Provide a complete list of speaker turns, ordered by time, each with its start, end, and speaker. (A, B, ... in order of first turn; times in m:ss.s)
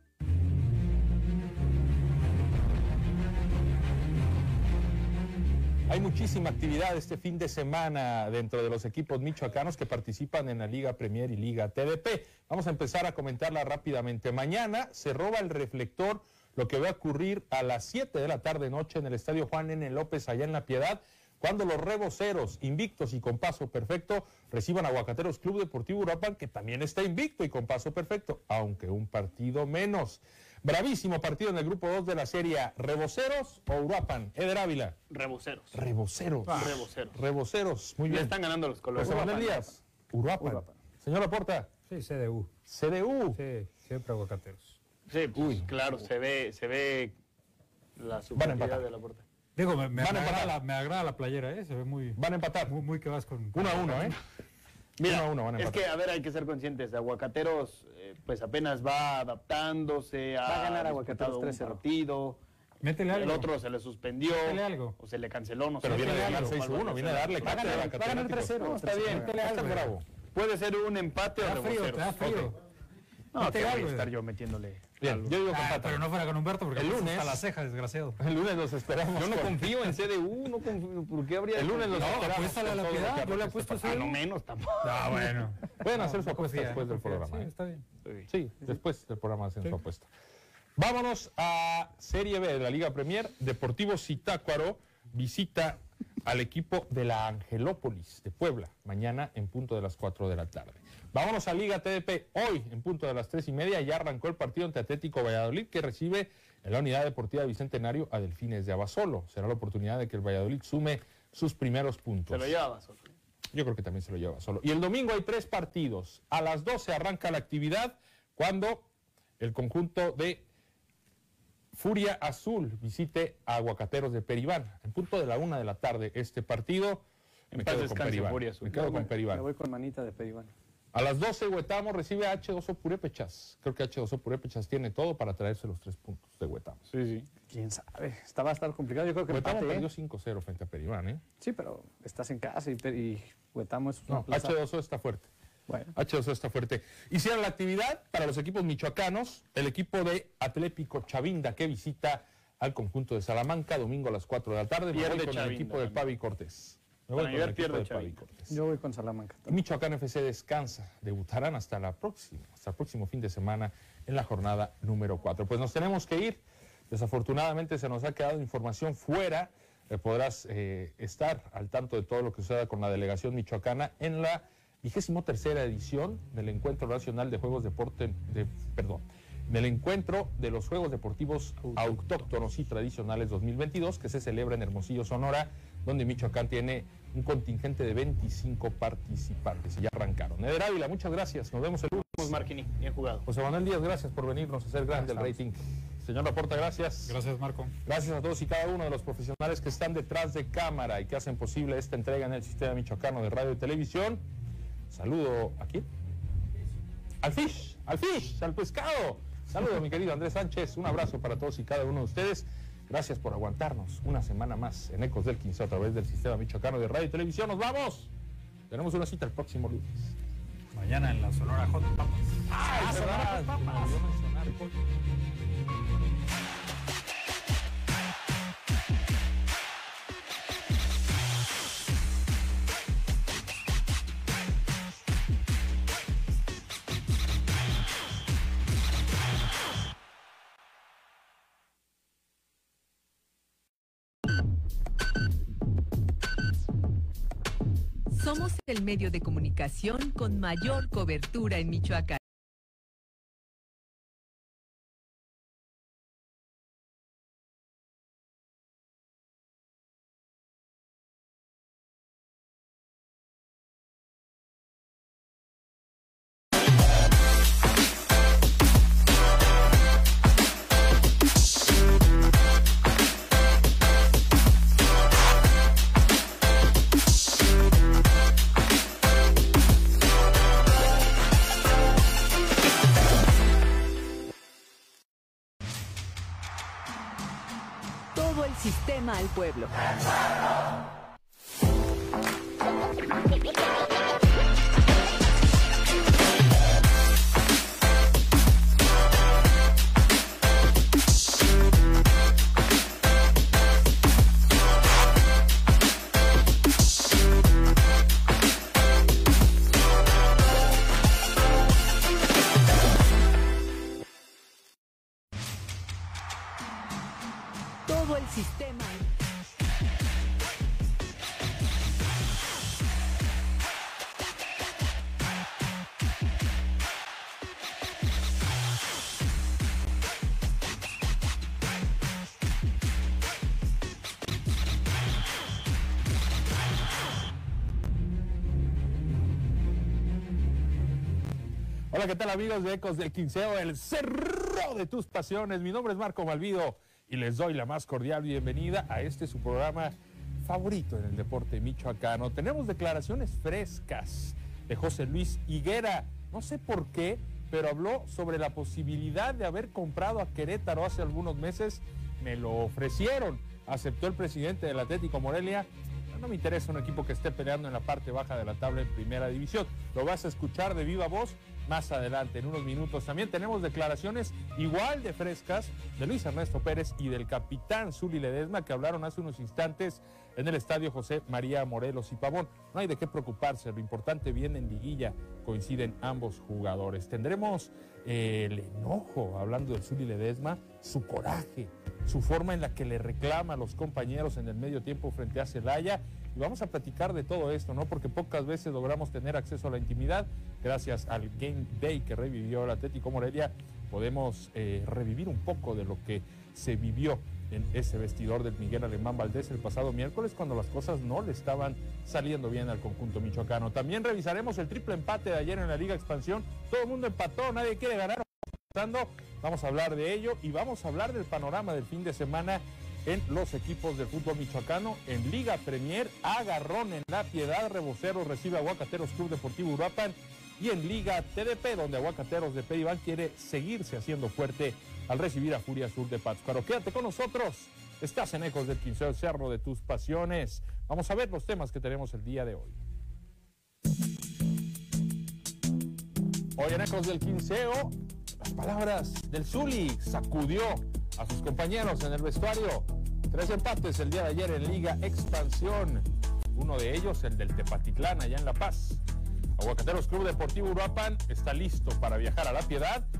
0:05.9-0:35.0 A
0:35.1-0:35.9 B
0:35.7-0:38.4 A
0:36.5-0:36.8 C
0:36.5-0:37.2 B
0:38.1-0:39.7 B
0:39.0-0:41.7 A
0:41.9-0:42.5 C
0:42.7-0:43.4 A
0:43.3-0:44.8 C
0:45.1-0:47.2 B
0:45.4-0:45.7 A
0:48.0-0:49.2 B
0:48.4-0:48.9 A
0:49.6-0:54.2 C
0:50.0-0:50.6 A
0:52.2-0:52.8 A
0:53.5-0:54.2 A
0:55.0-1:02.4 B
0:55.0-0:56.0 A
1:00.4-1:01.8 D
1:02.8-1:03.5 C
1:03.1-1:08.0 B
1:04.3-1:05.0 C
1:05.8-1:10.0 A
1:05.9-1:06.6 C
1:07.4-1:09.5 D
1:07.4-1:09.9 C
1:08.7-1:09.4 B
1:10.3-1:12.5 B
1:11.4-1:12.6 C
1:13.3-1:15.5 B
1:13.4-1:14.2 C
1:15.0-1:16.1 A
1:15.4-1:18.2 C
1:16.7-1:17.4 A
1:18.2-1:20.7 A
1:19.1-1:22.7 B
1:21.5-1:24.1 A
1:21.9-1:24.2 C
1:23.8-1:25.4 B
1:24.8-1:27.8 C
1:25.8-1:27.5 A
1:28.3-1:30.1 A
1:30.8-1:52.6 A
1:52.3-1:53.1 B
1:53.5-1:58.9 A
1:59.4-2:00.5 A
2:01.7-2:09.5 A
2:07.5-2:09.1 B
2:08.7-2:10.5 D
2:10.9-2:16.8 A
2:16.9-2:17.3 B
2:17.3-2:19.9 D
2:19.3-2:21.2 A
2:21.4-2:24.6 D
2:24.1-2:25.3 A
2:25.7-2:25.9 D
2:26.0-2:38.6 A
2:34.9-2:36.1 B
2:37.1-2:38.2 B
2:38.5-2:39.6 D
2:39.5-3:12.4 A
3:01.7-3:02.1 B
3:12.0-3:13.2 B
3:13.3-3:17.2 A
3:14.9-3:15.3 C
3:17.0-3:17.7 C
3:17.8-3:24.2 A
3:24.9-3:25.9 A
3:27.2-3:38.1 A
3:38.7-3:40.2 A
3:40.7-3:44.0 C
3:42.5-3:44.8 A
4:08.1-4:12.2 E
4:48.2-4:49.8 E
5:17.9-5:19.1 E
5:41.9-7:22.8 A
7:26.6-7:39.0 A
7:39.6-7:43.1 A